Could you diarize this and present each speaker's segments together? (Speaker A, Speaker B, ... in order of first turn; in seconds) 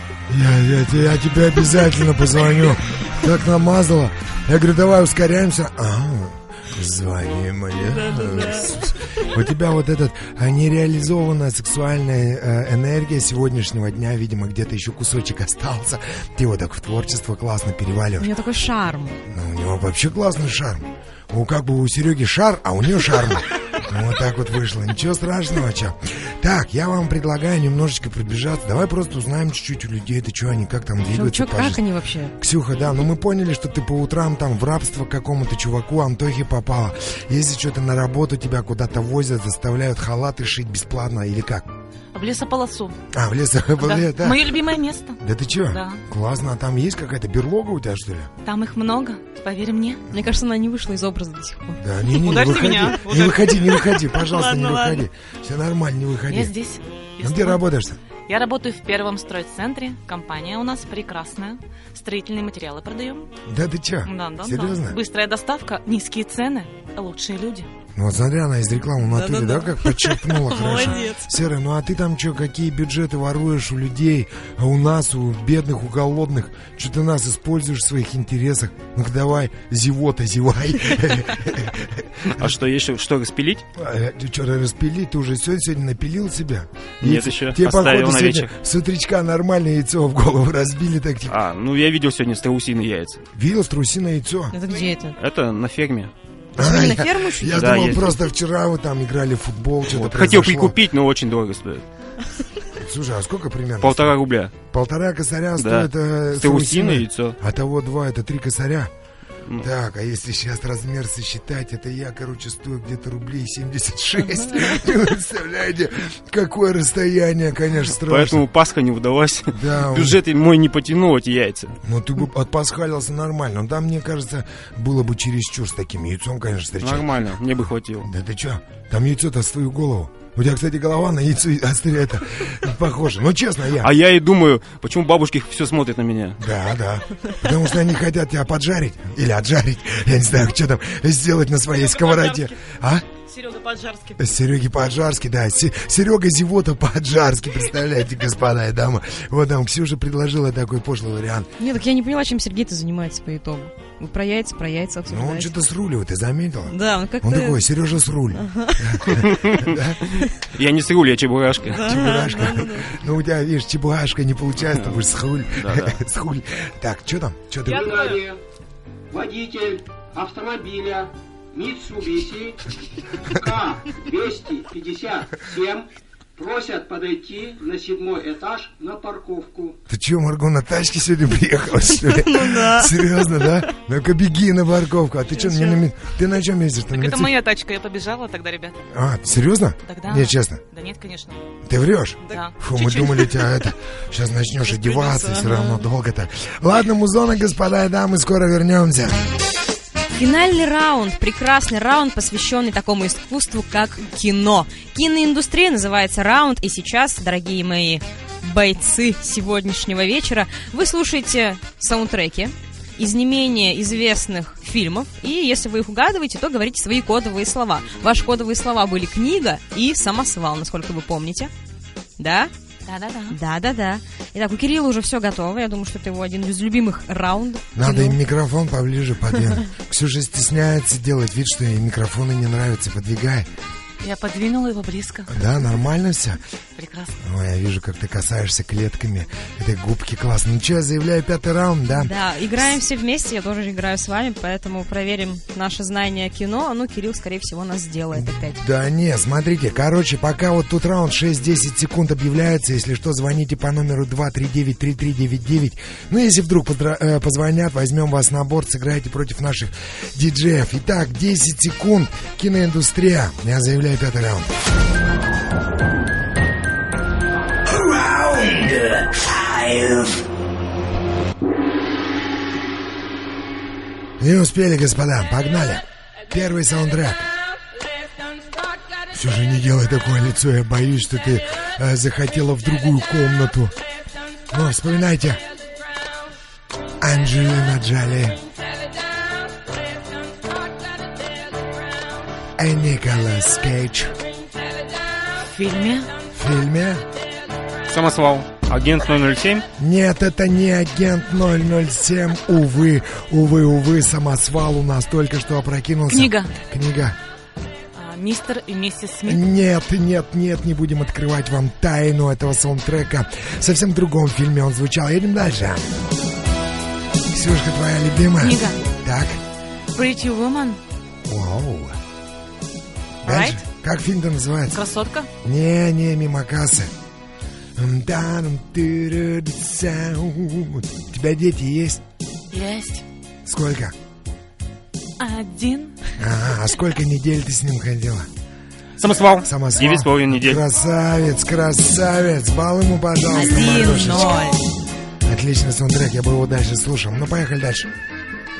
Speaker A: 0.3-18.3, 19.3-31.8, 32.4-41.7, 43.1-44.6, 45.2-48.3, 51.8-56.5, 57.2-58.0, 63.5-65.0, 67.9-82.5, 83.8-91.4, 93.3-94.5, 96.6-100.8, 102.8-104.2, 104.7-108.9, 109.6-118.4, 119.5-120.2, 121.8-127.3, 128.0-133.9, 136.4-143.1, 144.2-151.5, 155.1-160.0, 161.7-167.8, 179.9-187.3, 188.9-190.6, 191.6-199.2, 227.8-233.5, 235.3-236.4, 237.2-242.1, 248.1-264.5, 274.2-277.3, 279.1-283.7, 284.5-285.4, 287.0-288.4, 292.6-294.1, 296.3-297.0, 299.8-307.2, 309.2-316.0, 317.3-319.4, 321.2-321.9, 323.2-324.8, 325.4-326.9, 327.8-332.0, 333.4-333.9, 336.2-338.3, 339.4-344.5, 345.2-347.9
Speaker B: 7.9-8.9, 18.2-19.2, 31.1-32.3, 50.1-51.8, 54.2-55.0, 69.1-71.3, 94.5-95.2, 96.6-98.1, 151.6-155.5, 156.7-157.6, 158.3-159.1, 161.7-162.9, 182.1-183.1, 200.1-221.5, 222.2-222.5, 223.3-228.2, 241.9-248.6, 343.3-344.6
Speaker C: 42.1-43.0, 43.8-46.0, 48.4-50.0, 52.1-54.0, 56.3-57.6, 58.3-63.3, 64.0-67.7, 141.8-142.5, 143.2-144.2, 167.8-168.0, 185.5-185.8, 186.9-188.8, 189.8-191.4, 192.2-193.2, 194.9-195.7, 222.8-223.4, 234.0-235.3, 236.8-237.2, 295.3-296.1, 306.1-306.5, 307.9-309.4, 318.4-318.8, 319.9-320.8, 323.3-323.6, 324.7-325.3, 332.5-333.0, 335.2-336.0
Speaker D: 82.3-83.6, 87.0-88.5, 91.3-93.2, 95.2-96.1, 97.6-98.1, 99.9-101.8, 103.8-104.5, 105.6-107.3, 118.1-121.8, 126.8-128.1, 133.8-136.4, 159.1-159.8, 160.4-161.8, 165.6-166.0, 297.9-299.6, 339.0-340.6
Speaker E: 167.7-168.4, 169.1-172.7, 173.2-179.8
Speaker F: 267.6-270.2